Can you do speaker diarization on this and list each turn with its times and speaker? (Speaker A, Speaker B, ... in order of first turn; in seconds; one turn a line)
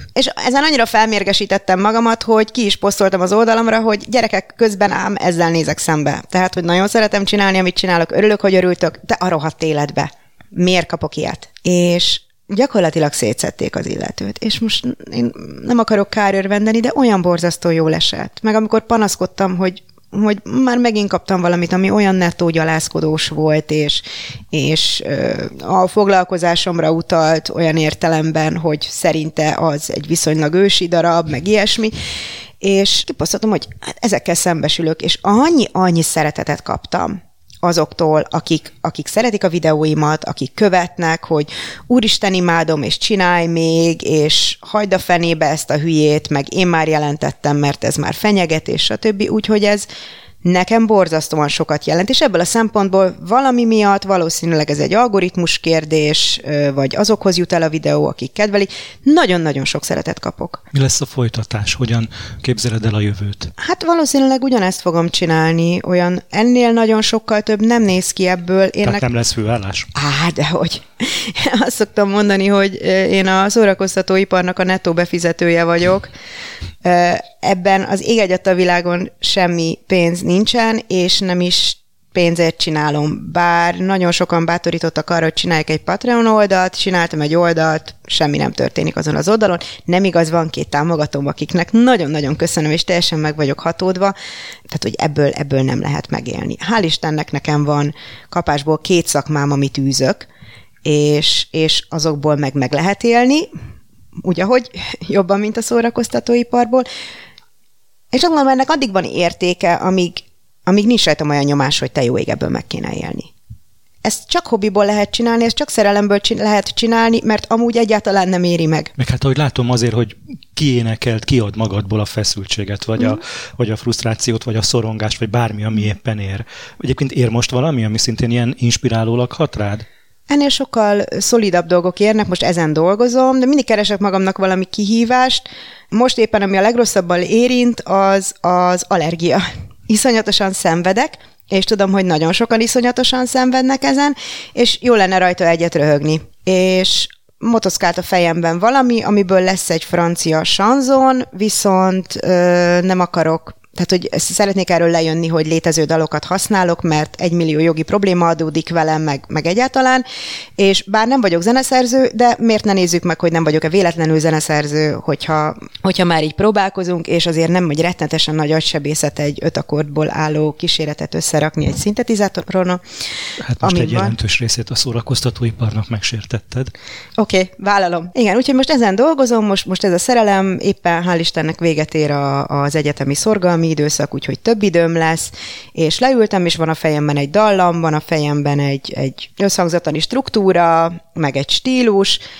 Speaker A: 0.1-31.9
Speaker A: 32.6-49.9
Speaker A: 50.4-60.6
Speaker B: 60.7-63.5
Speaker A: 63.6-69.0
Speaker B: 68.8-69.9
Speaker A: 69.9-76.1
Speaker A: 76.8-94.1
Speaker A: 94.7-100.3
Speaker A: 100.8-103.5
Speaker A: 104.2-106.9
Speaker A: 108.1-113.3
Speaker A: 114.0-118.9
Speaker B: 119.0-129.9
Speaker A: 130.3-160.0
Speaker A: 160.6-172.8
Speaker B: 173.4-176.7
Speaker A: 173.6-174.1
Speaker A: 177.2-192.2